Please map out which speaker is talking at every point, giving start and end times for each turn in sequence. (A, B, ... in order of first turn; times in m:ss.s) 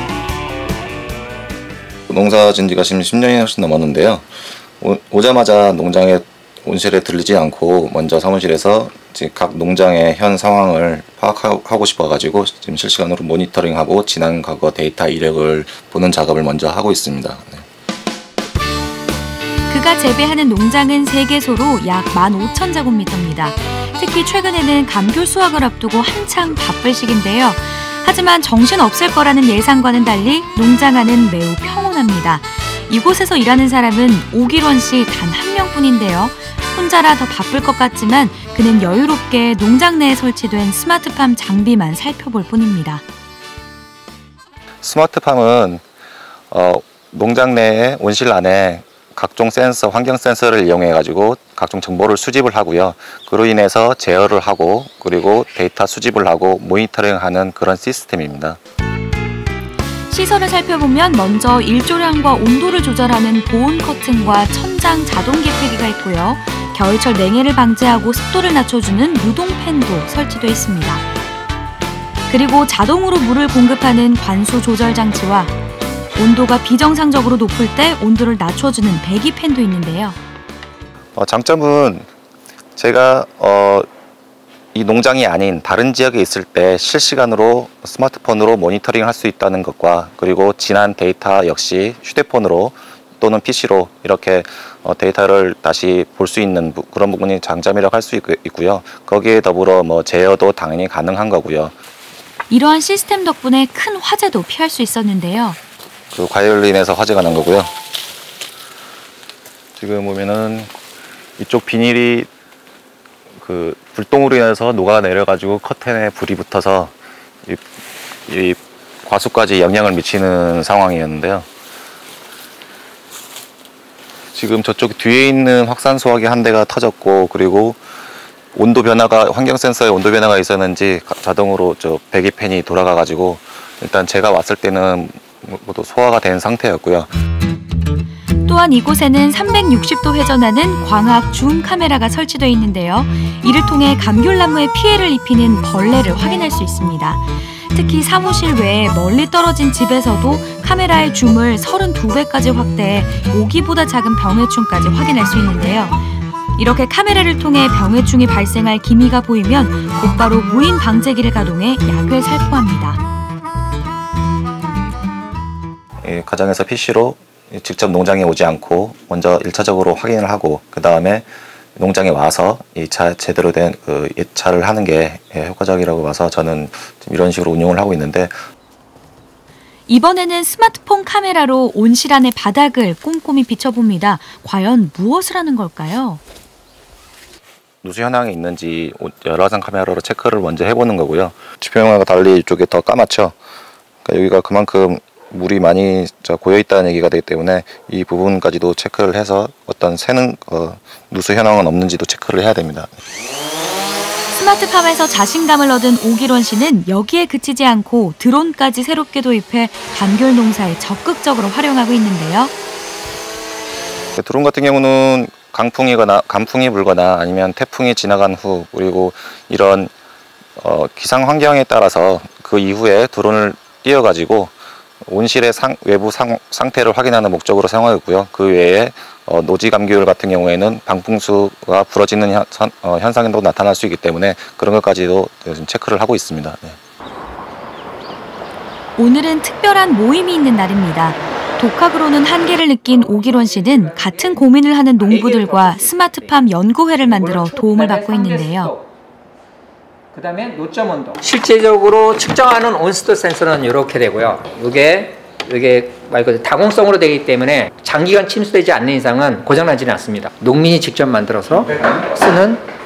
0:02.1-0:17.6 A
0:19.7-0:43.0 B
0:44.8-0:45.8 A
0:46.5-0:58.6 A
1:00.1-1:11.1 B
1:12.3-1:15.5 B
1:16.2-1:20.2 B
1:21.2-1:22.1 A
1:22.8-1:23.9 A
1:24.7-1:41.7 A
1:42.5-1:45.6 B
1:46.1-1:47.7 A
1:49.8-1:50.7 A
1:51.4-1:52.3 A
1:53.4-1:56.9 A
1:58.3-2:01.4 A
2:04.3-2:07.8 A
2:08.5-2:17.1 A
2:18.4-2:36.0 B
2:36.6-2:43.0 B
2:46.0-2:58.4 A
2:59.9-3:06.2 B
3:07.8-3:13.3 A
3:14.0-3:22.9 A
3:24.3-3:32.5 B
3:34.2-3:39.9 A
3:40.6-3:56.8 A
3:59.0-4:08.7 B
4:03.2-4:04.0 C
4:05.0-4:06.3 C
4:07.0-4:08.8 C
4:10.1-4:22.6 C